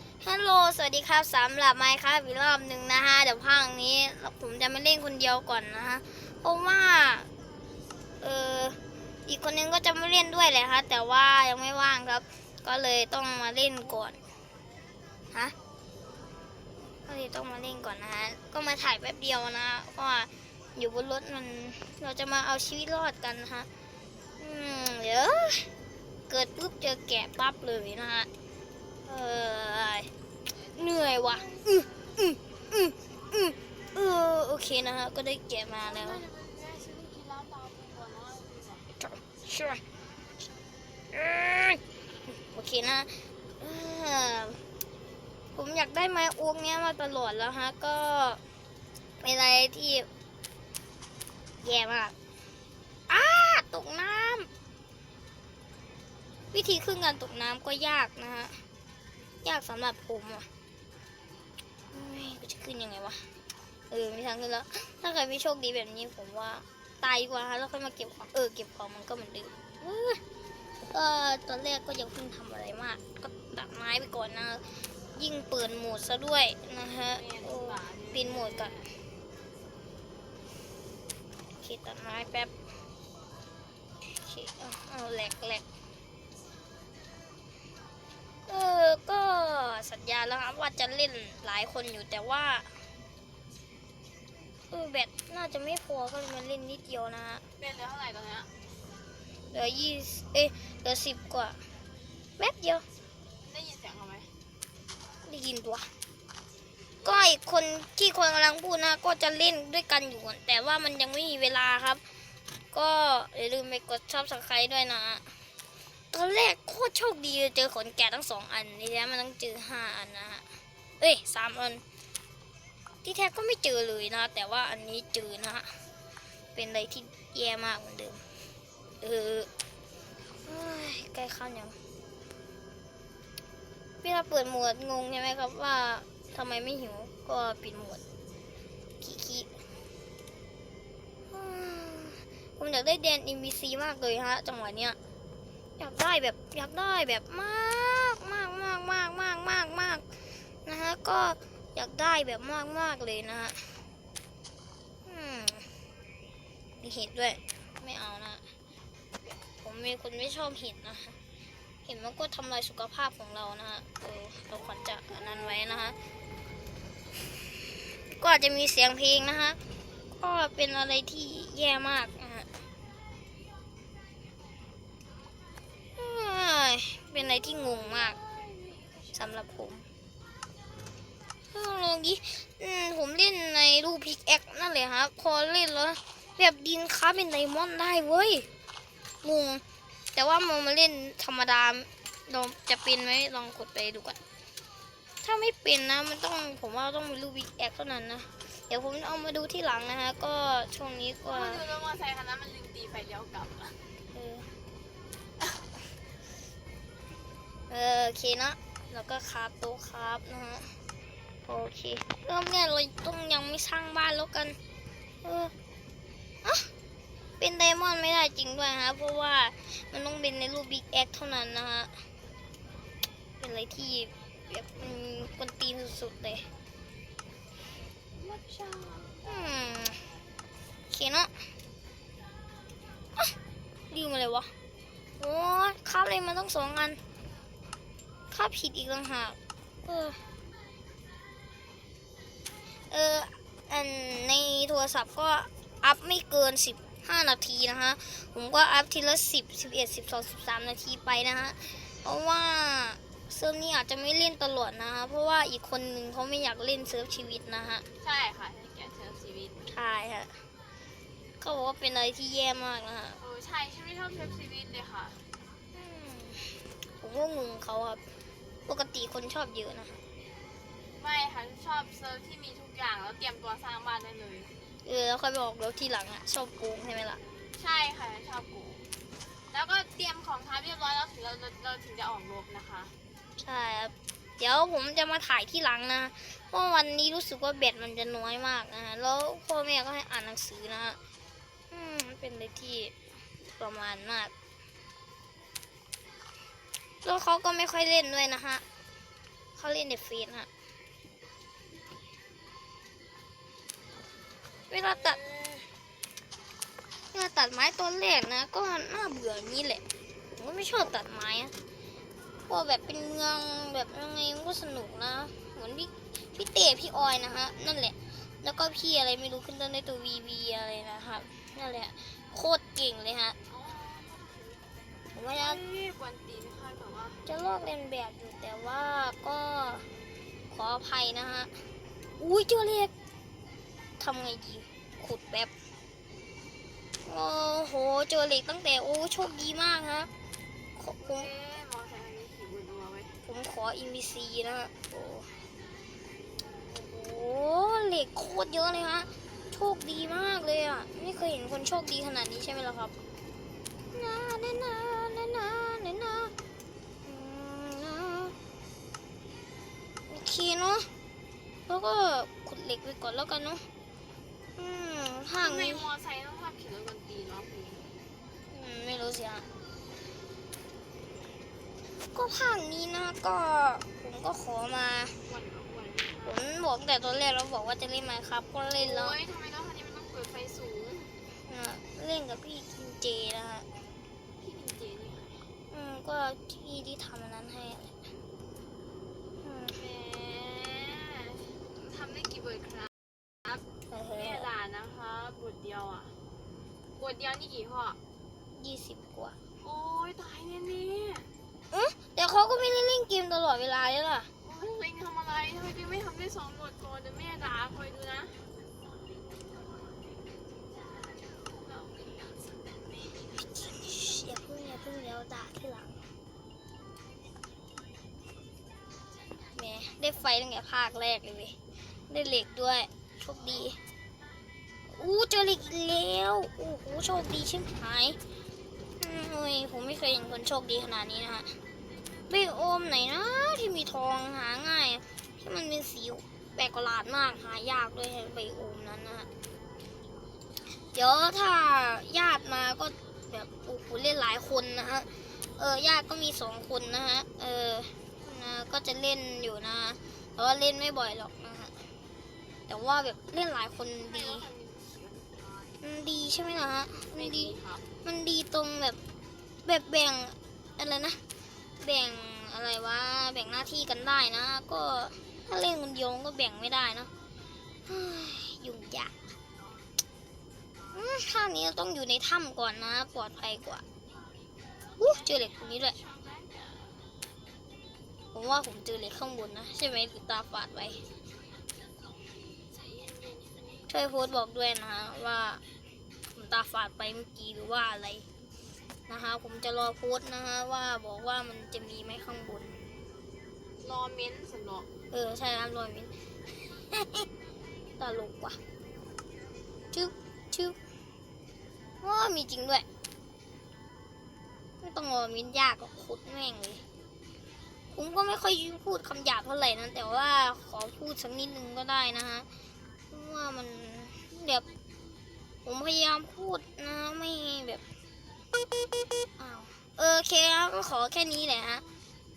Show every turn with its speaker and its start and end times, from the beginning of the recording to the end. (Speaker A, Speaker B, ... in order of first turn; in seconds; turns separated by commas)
Speaker A: 0.2-7.3, Speaker A: 8.2-14.2, Speaker A: 17.1-23.7, Speaker A: 24.4-25.7, Speaker A: 26.3-28.3, Speaker A: 29.1-36.2, Speaker B: 35.8-38.9, Speaker A: 39.0-39.8, Speaker A: 41.1-41.8, Speaker A: 42.3-44.6, Speaker A: 45.5-48.4, Speaker A: 49.2-50.1, Speaker A: 51.6-52.1, Speaker A: 53.1-54.5, Speaker A: 56.5-58.6, Speaker A: 59.4-60.5, Speaker A: 61.9-63.3, Speaker A: 63.9-70.2, Speaker A: 70.8-78.8, Speaker B: 77.1-78.9, Speaker A: 81.6-82.5, Speaker A: 84.1-85.6, Speaker A: 88.5-92.8, Speaker A: 94.7-97.5, Speaker B: 97.6-98.5, Speaker A: 99.5-101.6, Speaker A: 102.4-102.8, Speaker B: 103.4-104.3, Speaker A: 105.2-105.9, Speaker A: 107.0-112.0, Speaker A: 112.7-115.4, Speaker A: 116.1-120.5, Speaker A: 121.0-121.8, Speaker A: 123.0-125.8, Speaker A: 126.5-128.2, Speaker A: 129.0-129.5, Speaker A: 130.4-131.8, Speaker A: 134.0-138.0, Speaker A: 139.0-139.5, Speaker A: 141.3-145.0, Speaker A: 145.8-150.1, Speaker A: 150.7-153.8, Speaker A: 155.1-155.8, Speaker A: 156.8-158.4, Speaker A: 159.5-161.2, Speaker A: 161.8-166.0, Speaker A: 167.9-169.6, Speaker A: 170.1-172.5, Speaker A: 175.9-178.2, Speaker B: 177.2-179.6, Speaker A: 179.1-179.9, Speaker A: 181.5-188.5, Speaker A: 189.2-189.6, Speaker A: 190.2-194.2, Speaker A: 195.2-201.6, Speaker B: 201.3-203.8, Speaker A: 204.1-204.5, Speaker A: 207.7-210.8, Speaker A: 211.4-214.6, Speaker A: 215.2-215.5, Speaker A: 216.4-216.7, Speaker A: 217.4-222.1, Speaker A: 223.4-226.5, Speaker B: 228.2-229.6, Speaker A: 229.2-230.1, Speaker A: 230.9-231.5, Speaker A: 233.9-234.5, Speaker A: 235.2-237.0, Speaker A: 238.3-240.2, Speaker A: 242.9-257.9, Speaker B: 258.0-259.7, Speaker A: 259.7-260.4, Speaker A: 261.4-263.2, Speaker B: 263.2-265.2, Speaker A: 265.7-268.0, Speaker A: 268.7-270.0, Speaker B: 271.0-274.5, Speaker A: 274.8-277.2, Speaker B: 277.6-278.9, Speaker B: 279.5-283.0, Speaker A: 283.4-291.0, Speaker A: 291.7-294.3, Speaker A: 297.0-298.6, Speaker A: 299.6-300.5, Speaker A: 304.7-305.2, Speaker B: 305.0-305.7, Speaker A: 307.1-311.5, Speaker A: 312.5-323.4, Speaker B: 323.5-324.7, Speaker A: 325.1-325.6, Speaker B: 325.3-327.3, Speaker A: 327.3-329.9, Speaker A: 330.5-331.6, Speaker A: 332.2-332.9, Speaker A: 334.0-335.5, Speaker A: 337.0-340.1, Speaker A: 340.8-341.3, Speaker B: 341.0-343.2, Speaker A: 343.2-345.4, Speaker A: 346.7-352.9, Speaker A: 353.9-356.3, Speaker A: 357.0-358.4, Speaker A: 360.1-360.9, Speaker A: 361.7-363.6, Speaker A: 364.6-365.9, Speaker B: 365.4-368.0, Speaker A: 368.5-369.5, Speaker A: 372.0-375.2, Speaker B: 375.2-376.4, Speaker A: 376.2-379.2, Speaker B: 378.8-381.1, Speaker A: 381.4-383.7, Speaker B: 384.4-385.5, Speaker A: 385.7-388.0, Speaker A: 389.4-389.8, Speaker B: 389.7-392.9, Speaker B: 393.4-396.2, Speaker A: 393.9-394.5, Speaker B: 397.0-398.0, Speaker A: 398.6-399.4, Speaker B: 399.6-401.3, Speaker A: 401.7-404.3, Speaker B: 404.4-408.5, Speaker B: 411.1-413.3, Speaker A: 413.4-416.0, Speaker A: 419.5-421.6, Speaker A: 422.1-423.8, Speaker A: 424.9-428.2, Speaker A: 429.0-431.6, Speaker A: 432.3-439.3, Speaker A: 440.9-451.9, Speaker A: 452.7-454.5, Speaker B: 454.0-455.8, Speaker A: 455.8-459.0, Speaker B: 457.1-457.9, Speaker A: 459.6-461.2, Speaker A: 461.8-467.1, Speaker A: 467.9-469.2, Speaker B: 469.6-469.9, Speaker A: 470.9-473.8, Speaker B: 475.0-477.1, Speaker A: 475.0-475.9, Speaker A: 478.3-481.0, Speaker B: 482.4-483.9, Speaker A: 483.9-485.6, Speaker A: 486.3-488.2, Speaker A: 489.1-492.8, Speaker B: 493.8-494.9, Speaker A: 495.1-496.1, Speaker A: 496.7-497.3, Speaker A: 498.0-498.6, Speaker A: 499.9-500.8, Speaker A: 502.0-502.9, Speaker A: 504.8-506.8, Speaker A: 507.9-512.5, Speaker A: 513.1-514.7, Speaker A: 515.6-517.8, Speaker A: 519.4-521.9